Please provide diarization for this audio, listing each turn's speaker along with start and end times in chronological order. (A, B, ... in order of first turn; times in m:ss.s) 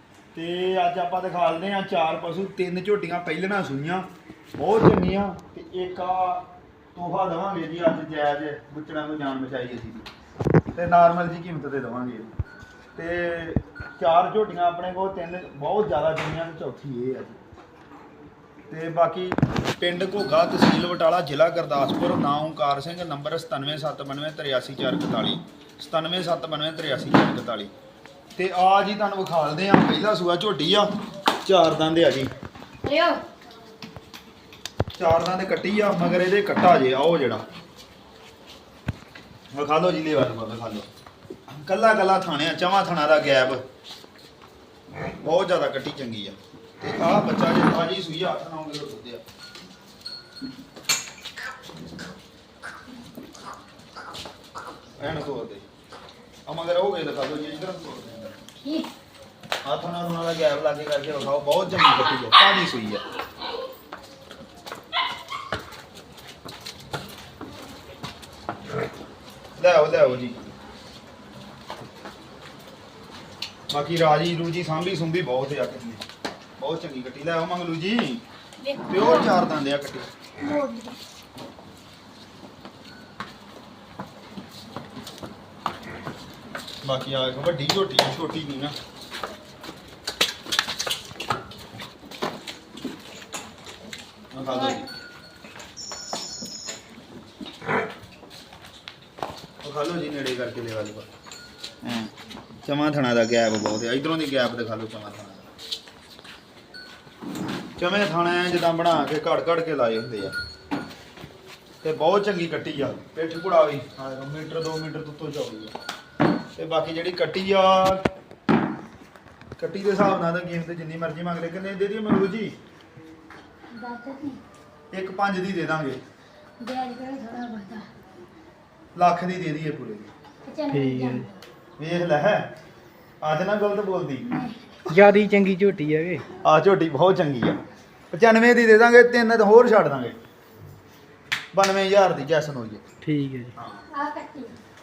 0:00.3-0:10.1 A
0:10.8-0:12.3 A
0:13.0-0:17.4 A
0:18.7-0:27.7 A
0:28.4-0:30.9 A
0:31.4-0:32.3 A
0:32.8-0:33.2 B
0:35.0-0:37.4 A
0:39.5-0:40.9 A
0:41.5-0:43.6 A
0:45.2-0:49.2 A
0:55.0-0:55.7 A
0:56.5-0:58.4 A
0:58.6-0:58.9 B
0:59.6-1:03.0 A
1:09.6-1:10.5 A
1:13.7-1:16.0 A
1:16.6-1:18.2 A
1:18.6-1:19.3 B
1:18.9-1:20.1 A
1:20.4-1:21.0 B
1:26.8-1:28.8 A
1:34.3-1:34.9 A
1:34.5-1:34.8 B
1:39.6-1:41.1 A
1:41.8-1:42.1 A
1:42.6-1:45.5 A
1:47.8-1:50.4 A
1:51.8-1:55.8 A
1:56.6-1:58.1 A
1:59.6-2:02.6 A
2:03.7-2:04.4 B
2:04.9-2:06.0 A
2:06.6-2:07.9 B
2:09.0-2:10.1 A
2:10.4-2:11.4 B
2:10.7-2:11.3 C
2:11.8-2:12.5 A
2:13.2-2:14.3 A
2:14.2-2:14.6 B
2:14.9-2:16.2 C
2:16.4-2:17.6 A
2:18.1-2:20.2 A
2:21.5-2:22.8 A
2:23.0-2:23.5 C
2:23.6-2:23.8 A
2:23.9-2:24.6 B